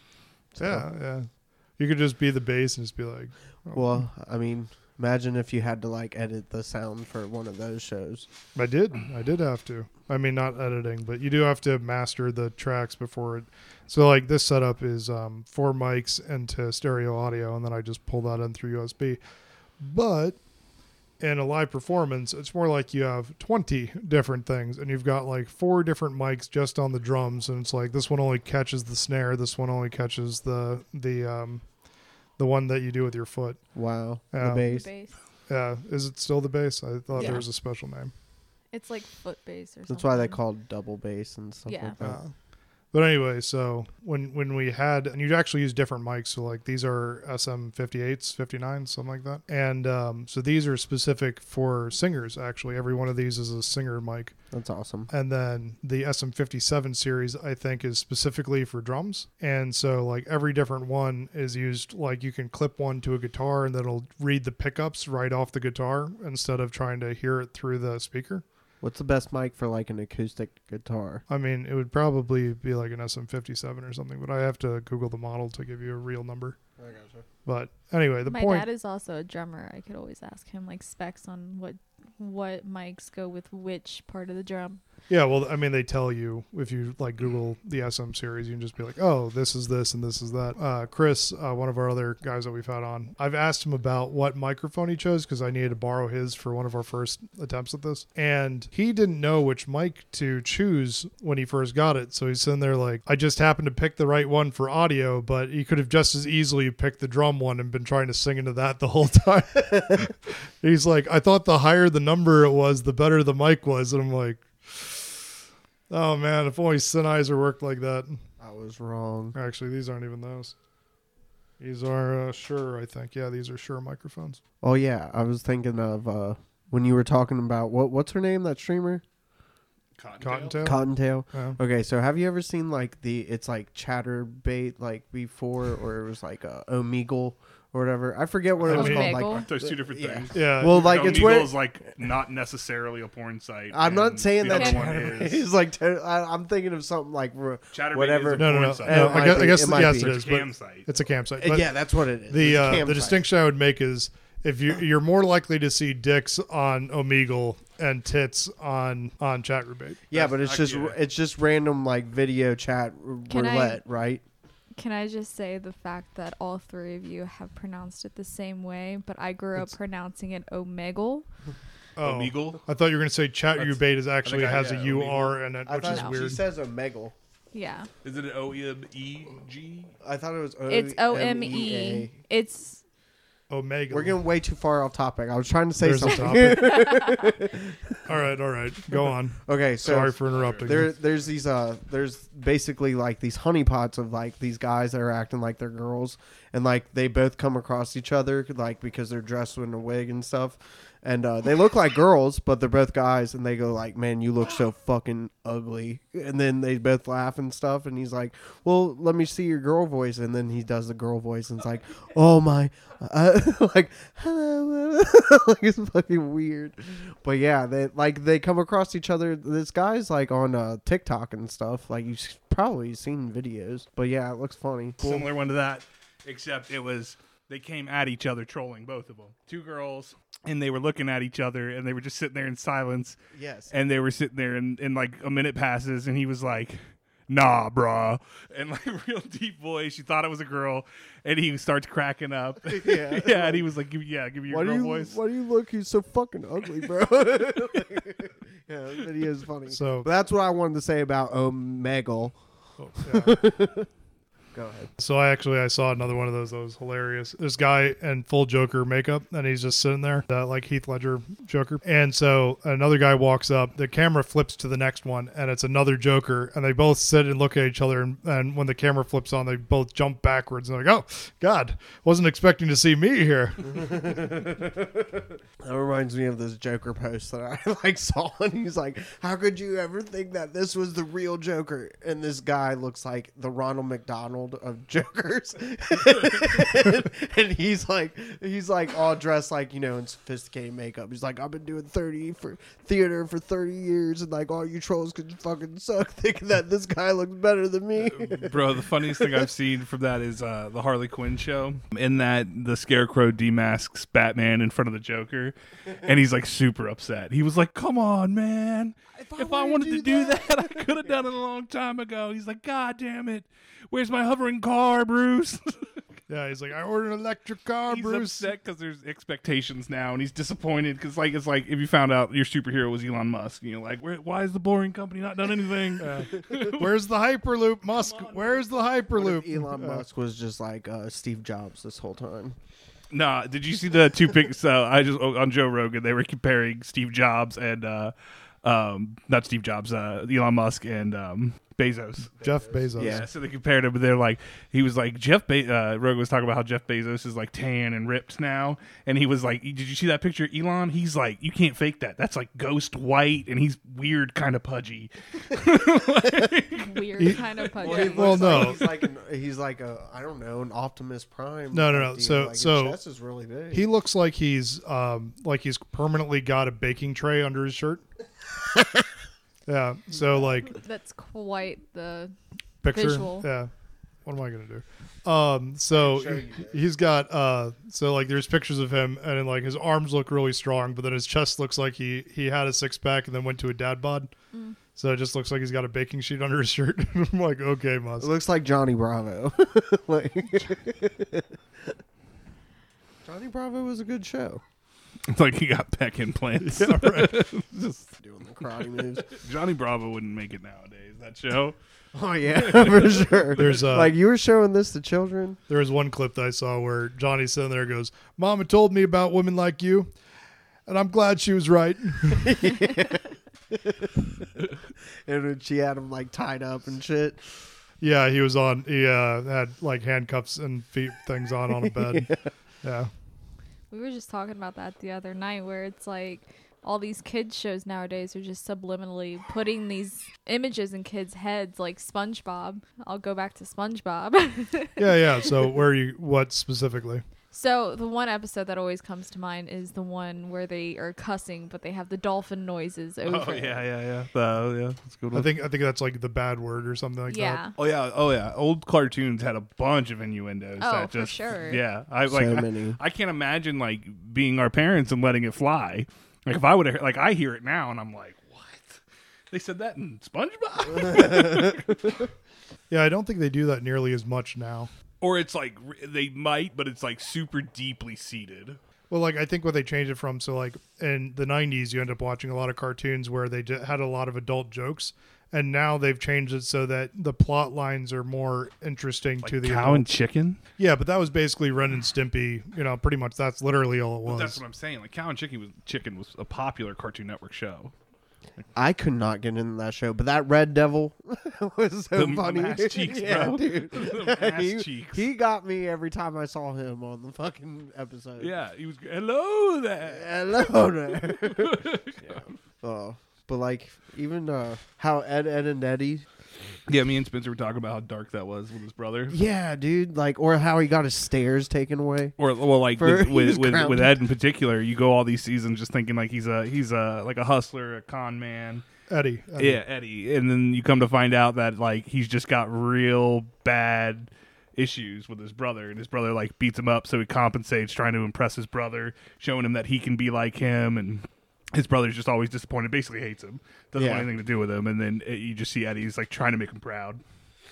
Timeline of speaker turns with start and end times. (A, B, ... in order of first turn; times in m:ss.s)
0:00.5-0:00.9 A
0:00.6-0:04.0 B
0:03.7-0:08.3 A
0:08.6-0:19.2 B
0:19.8-0:20.4 B
0:21.2-0:31.6 B
0:32.4-0:33.6 B
0:33.8-0:34.9 A
0:34.3-0:34.7 B
0:34.5-0:35.2 C
0:35.5-0:38.1 B
0:37.1-0:37.4 C
0:37.1-0:37.5 A
0:38.7-0:40.4 C
0:39.9-0:42.2 A
0:41.7-0:42.0 C
0:42.0-0:42.3 B
0:42.9-0:54.4 B
0:54.5-0:55.1 A
0:55.1-1:08.4 B
1:08.8-1:11.2 A
1:11.3-1:16.6 B
1:16.8-1:17.3 A
1:17.5-1:18.7 B
1:18.2-1:24.8 C
1:25.1-1:55.2 B
1:55.9-1:58.2 B
1:58.4-1:59.4 A
1:59.4-2:00.6 B
2:01.6-2:04.4 B
2:04.6-2:09.0 A
2:10.0-2:10.7 D
2:10.2-2:11.6 B
2:10.6-2:21.6 A
2:18.6-2:19.2 B
2:18.7-2:19.5 C
2:19.2-2:25.4 D
2:20.3-2:21.5 B
2:23.7-2:30.2 A
2:24.5-2:24.9 C
2:24.8-2:25.3 B
2:27.7-2:30.9 D
2:28.4-2:31.7 B
2:31.4-2:33.2 A
2:32.3-2:40.0 B
2:40.1-2:44.2 A
2:40.1-2:41.0 D
2:43.3-2:43.8 C
2:44.8-2:51.2 C
2:52.0-2:56.4 B
2:52.0-2:52.6 D
2:53.6-2:55.4 D
2:55.6-2:57.2 A
2:55.8-2:56.1 C
2:57.5-2:57.9 C
2:58.0-2:59.9 D
3:00.0-3:02.1 A
3:00.7-3:02.8 C
3:03.5-3:04.2 B
3:03.9-3:08.0 A
3:05.8-3:06.9 B
3:06.7-3:07.2 C
3:08.0-3:10.9 B
3:09.4-3:45.3 A
3:10.0-3:10.9 D
3:45.0-3:53.2 D
3:53.3-3:53.7 A
3:53.7-4:05.2 D
4:02.7-4:03.7 A
4:04.5-4:12.4 A
4:09.7-4:10.1 B
4:12.8-4:13.4 B
4:13.0-4:13.9 A
4:14.5-4:14.9 A
4:15.0-4:33.9 B
4:33.6-4:59.5 A
4:58.0-5:15.9 D
5:09.2-5:10.9 A
5:09.6-5:10.3 B
5:16.3-5:18.5 B
5:17.9-5:26.9 D
5:26.0-5:30.0 B
5:27.9-5:28.6 D
5:29.1-5:32.6 A
5:33.1-5:57.6 D
5:42.4-5:43.2 B
5:43.0-5:43.3 A
5:56.8-5:58.8 C
5:57.2-5:58.8 B
5:57.8-6:03.9 A
6:01.7-6:03.0 B
6:03.7-6:08.0 B
6:09.7-6:10.8 B
6:10.7-6:12.3 C
6:12.8-6:13.7 B
6:12.9-6:13.5 C
6:14.2-6:24.3 B
6:15.9-6:16.9 A
6:24.5-6:24.8 C
6:24.9-6:28.3 B
6:28.2-6:32.0 A
6:33.2-6:34.6 A
6:35.3-6:38.2 D
6:36.6-6:37.5 B
6:38.2-6:39.3 A
6:39.3-6:41.8 D
6:42.1-6:45.6 A
6:42.5-6:43.8 D
6:43.5-6:44.2 B
6:45.7-6:50.1 B
6:50.9-6:52.6 B
6:52.3-6:57.6 A
6:58.0-7:03.1 B
7:01.7-7:02.4 A
7:03.9-7:15.2 C
7:15.0-7:17.2 B
7:17.5-7:23.8 C
7:23.2-7:25.5 D
7:25.3-7:27.6 B
7:27.3-7:27.8 C
7:27.8-7:39.0 D
7:30.8-7:31.8 C
7:32.3-7:33.0 A
7:39.5-7:42.1 D
7:41.0-7:41.8 A
7:42.9-7:44.9 B
7:45.2-7:48.8 D
7:49.1-8:00.1 B
7:59.4-8:00.6 D
8:00.8-8:04.6 B
8:04.3-8:07.9 D
8:08.7-8:18.5 A
8:12.2-8:15.2 D
8:18.4-8:22.5 D
8:20.0-8:26.2 A
8:26.9-8:29.4 D
8:29.3-8:32.4 A
8:32.4-8:38.8 D
8:33.0-8:34.2 A
8:39.1-8:39.8 B
8:39.6-8:57.2 D
8:54.0-8:54.3 A